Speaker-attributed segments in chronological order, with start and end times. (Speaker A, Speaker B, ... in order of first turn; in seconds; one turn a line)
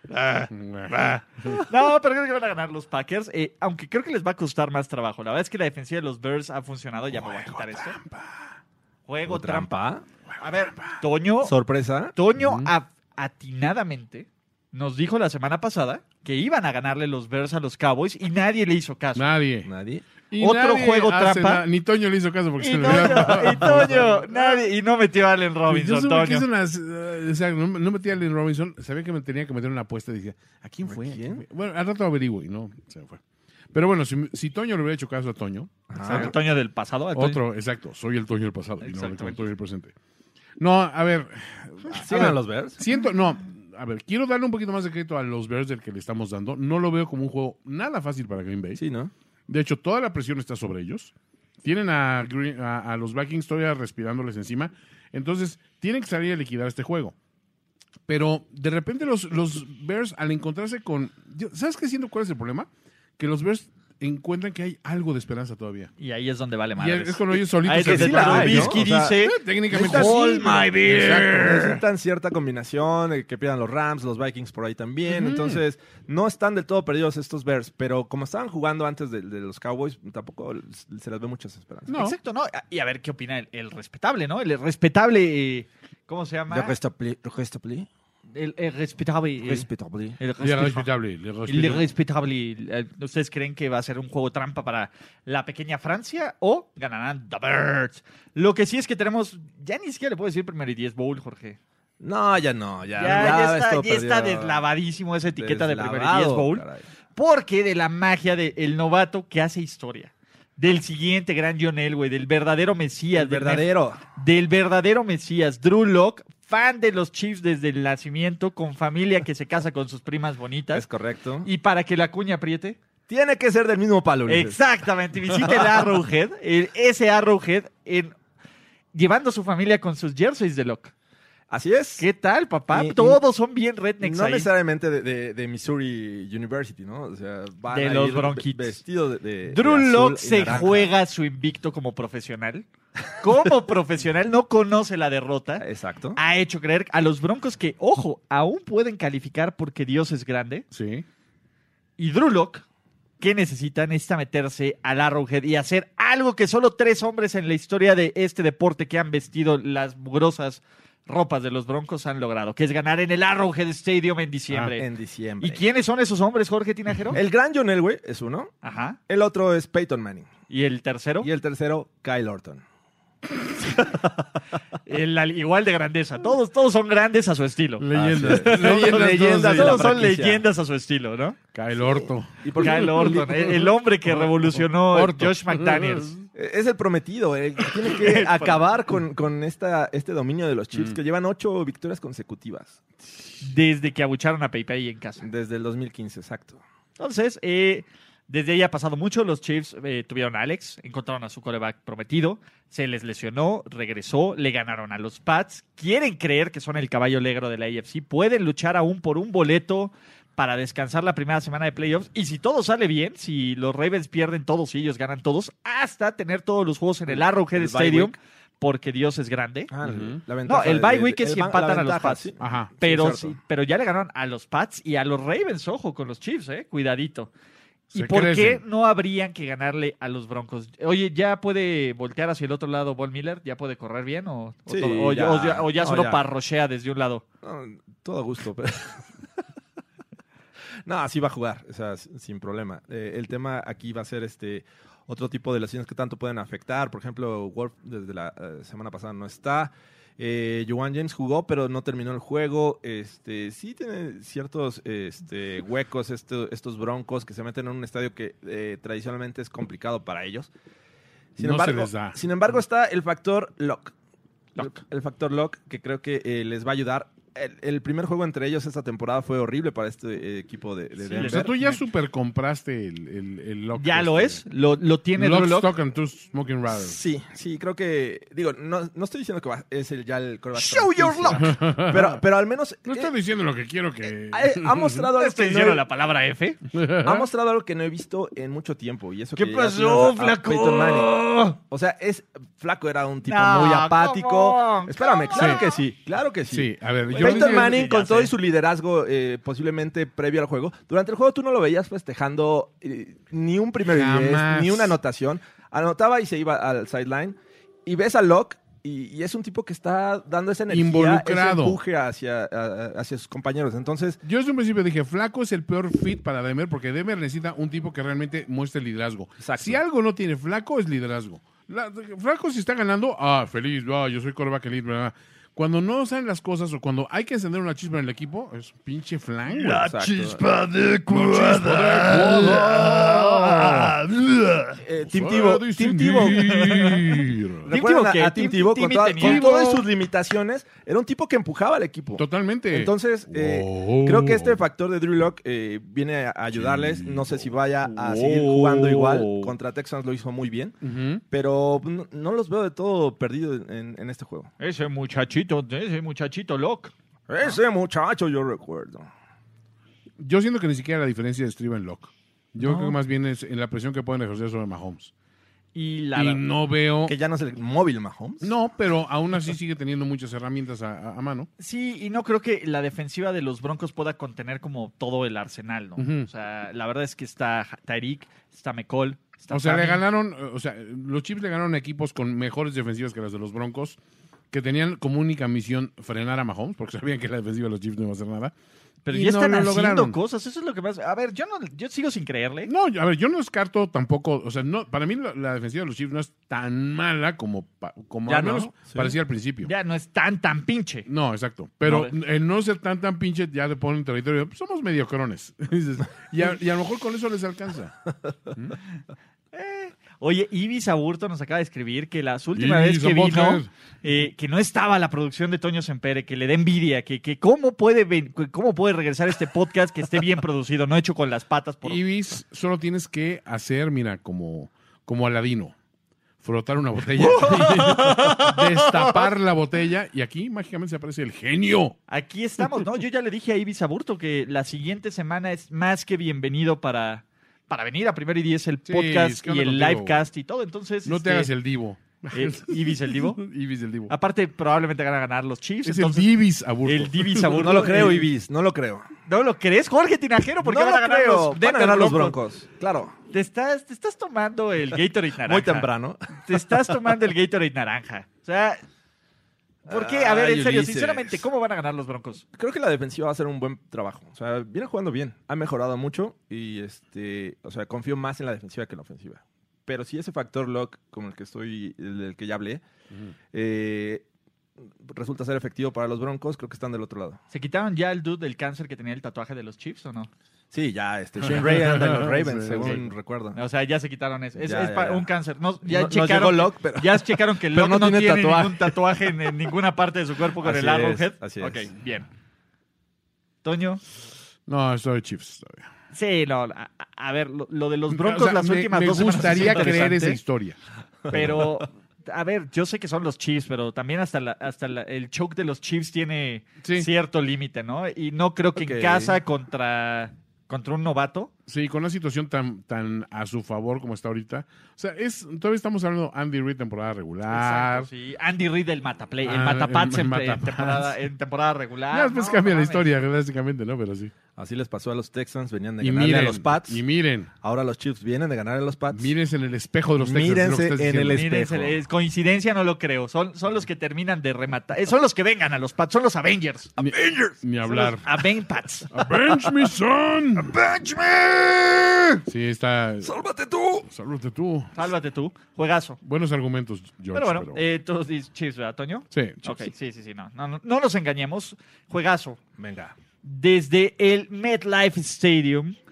Speaker A: 0.1-1.1
Speaker B: 0.5-1.6
Speaker A: 1.6-8.0
Speaker B: 7.1-8.6
Speaker A: 9.1-9.8
Speaker C: 9.3-10.1
Speaker B: 10.3-11.0
Speaker A: 10.4-11.5
Speaker C: 11.4-12.2
Speaker A: 12.2-19.3
Speaker B: 12.4-12.7
Speaker B: 19.1-19.7
Speaker C: 19.6-20.1
Speaker B: 20.3-24.6
Speaker A: 20.4-21.6
Speaker A: 22.6-26.5
Speaker C: 22.9-24.1
Speaker B: 25.7-33.2
Speaker C: 30.9-31.4
Speaker B: 33.7-36.3
Speaker C: 35.9-36.4
Speaker A: 36.0-37.4
Speaker B: 37.1-39.9
Speaker A: 38.8-39.5
Speaker B: 40.6-48.8
Speaker C: 42.0-42.8
Speaker C: 48.8-49.1
Speaker B: 49.5-57.1
Speaker B: 58.1-65.9
Speaker A: 66.0-70.7
Speaker B: 66.8-71.8
Speaker C: 67.8-69.2
Speaker C: 69.7-81.9
Speaker B: 75.1-75.6
Speaker B: 81.9-82.2
Speaker A: 81.9-86.8
Speaker C: 86.5-87.9
Speaker A: 88.3-89.7
Speaker C: 89.4-90.2
Speaker A: 90.2-90.9
Speaker B: 90.4-91.8
Speaker A: 91.5-101.6
Speaker C: 102.0-104.7
Speaker A: 103.0-120.8
Speaker C: 105.3-106.8
Speaker C: 113.1-114.0
Speaker C: 120.7-121.5
Speaker A: 121.4-122.8
Speaker C: 123.1-124.6
Speaker A: 124.3-128.1
Speaker A: 128.9-130.9
Speaker C: 131.5-132.1
Speaker A: 132.0-134.5
Speaker C: 132.7-133.2
Speaker C: 134.0-140.9
Speaker A: 137.7-138.8
Speaker A: 139.5-142.7
Speaker A: 143.2-145.7
Speaker C: 145.6-146.2
Speaker A: 146.2-150.7
Speaker B: 150.7-151.1
Speaker A: 152.0-152.7
Speaker A: 153.2-164.9
Speaker B: 164.5-164.8
Speaker C: 164.8-165.6
Speaker A: 165.4-167.2
Speaker C: 167.1-168.6
Speaker A: 168.6-169.0
Speaker C: 169.1-170.3
Speaker A: 170.5-171.3
Speaker C: 171.2-172.6
Speaker A: 174.9-181.4
Speaker B: 177.8-180.0
Speaker C: 177.9-180.5
Speaker B: 181.5-186.2
Speaker C: 181.8-183.7
Speaker A: 182.6-186.1
Speaker C: 186.3-192.8
Speaker A: 187.9-188.6
Speaker B: 190.7-191.0
Speaker A: 193.4-195.2
Speaker C: 195.2-196.6
Speaker A: 197.0-219.7
Speaker C: 217.1-218.2
Speaker C: 219.7-223.4
Speaker B: 219.8-220.2
Speaker A: 220.4-222.3
Speaker B: 222.4-222.7
Speaker A: 222.8-227.3
Speaker A: 227.9-237.2
Speaker B: 227.9-228.6
Speaker C: 234.7-236.2
Speaker C: 237.4-239.1
Speaker C: 240.9-260.5
Speaker C: 261.4-263.9
Speaker B: 261.4-262.2
Speaker C: 264.6-271.5
Speaker A: 271.1-271.8
Speaker B: 271.2-274.4
Speaker A: 273.7-275.7
Speaker B: 275.2-277.0
Speaker C: 276.7-283.1
Speaker A: 280.6-281.5
Speaker B: 281.4-282.2
Speaker B: 282.9-285.1
Speaker C: 284.3-285.8
Speaker A: 285.2-286.6
Speaker B: 286.7-287.3
Speaker C: 287.0-314.2
Speaker A: 289.4-291.6
Speaker A: 293.3-295.8
Speaker B: 295.4-295.6
Speaker B: 296.5-297.9
Speaker A: 297.1-298.3
Speaker B: 303.9-305.0
Speaker B: 310.7-311.8
Speaker B: 314.2-330.1
Speaker C: 319.4-319.8
Speaker A: 329.6-333.8
Speaker C: 329.7-330.4
Speaker B: 330.9-334.1
Speaker C: 331.2-333.4
Speaker C: 334.8-336.9
Speaker B: 335.0-337.7
Speaker A: 336.5-337.0
Speaker C: 337.6-350.8
Speaker A: 337.7-339.8
Speaker B: 339.2-339.6
Speaker B: 342.2-344.6
Speaker B: 346.5-347.5
Speaker A: 347.8-349.5
Speaker B: 350.8-351.2
Speaker C: 351.3-354.5
Speaker A: 354.6-356.9
Speaker C: 357.3-359.1
Speaker B: 360.2-365.1
Speaker A: 362.6-362.9
Speaker A: 365.8-366.4
Speaker B: 366.1-367.1
Speaker C: 367.0-368.5
Speaker B: 368.4-371.5
Speaker A: 371.6-380.0
Speaker B: 376.0-376.3
Speaker B: 379.5-384.0
Speaker B: 384.5-388.5
Speaker A: 389.1-392.7
Speaker B: 389.1-390.2
Speaker B: 392.7-399.7
Speaker C: 398.3-399.1
Speaker A: 399.6-401.1
Speaker B: 401.1-407.9
Speaker A: 401.8-402.1
Speaker A: 409.5-422.0
Speaker B: 412.6-413.7
Speaker B: 421.9-425.8
Speaker B: 426.4-432.0
Speaker A: 427.2-429.3
Speaker A: 432.1-441.5
Speaker B: 438.9-440.3
Speaker B: 441.1-444.1
Speaker A: 442.3-443.4
Speaker A: 444.1-446.3
Speaker B: 445.8-447.9
Speaker A: 446.8-448.3
Speaker C: 447.5-449.1
Speaker A: 449.3-452.4
Speaker C: 450.6-453.1
Speaker A: 453.3-458.8
Speaker C: 455.4-456.6
Speaker C: 459.9-461.4
Speaker A: 459.9-462.4
Speaker C: 462.6-472.8
Speaker C: 473.5-474.2
Speaker C: 475.0-477.4
Speaker A: 477.5-480.3
Speaker C: 480.7-483.6
Speaker B: 481.4-483.1
Speaker A: 483.5-492.3
Speaker C: 484.6-485.3
Speaker C: 485.9-489.0
Speaker C: 490.6-491.9
Speaker A: 493.6-494.0
Speaker B: 494.7-495.9
Speaker A: 496.1-500.4
Speaker B: 498.1-500.8
Speaker C: 501.3-501.8
Speaker A: 501.3-511.5
Speaker B: 506.8-507.1
Speaker C: 508.8-509.4
Speaker B: 511.7-518.1
Speaker A: 517.5-523.1
Speaker B: 519.4-521.2
Speaker B: 522.1-524.3
Speaker C: 524.6-527.0
Speaker B: 526.0-527.5
Speaker C: 527.6-529.3
Speaker B: 529.1-531.5
Speaker C: 530.2-532.0
Speaker A: 531.3-536.9
Speaker B: 537.0-538.3
Speaker C: 537.0-537.6
Speaker A: 537.9-539.1
Speaker B: 539.1-540.8
Speaker C: 540.7-542.4
Speaker B: 542.5-543.4
Speaker C: 543.2-544.1
Speaker B: 544.0-545.1
Speaker A: 545.0-546.2
Speaker B: 546.2-547.8
Speaker A: 547.3-552.6
Speaker B: 549.3-549.9
Speaker C: 552.8-553.2
Speaker A: 553.4-556.0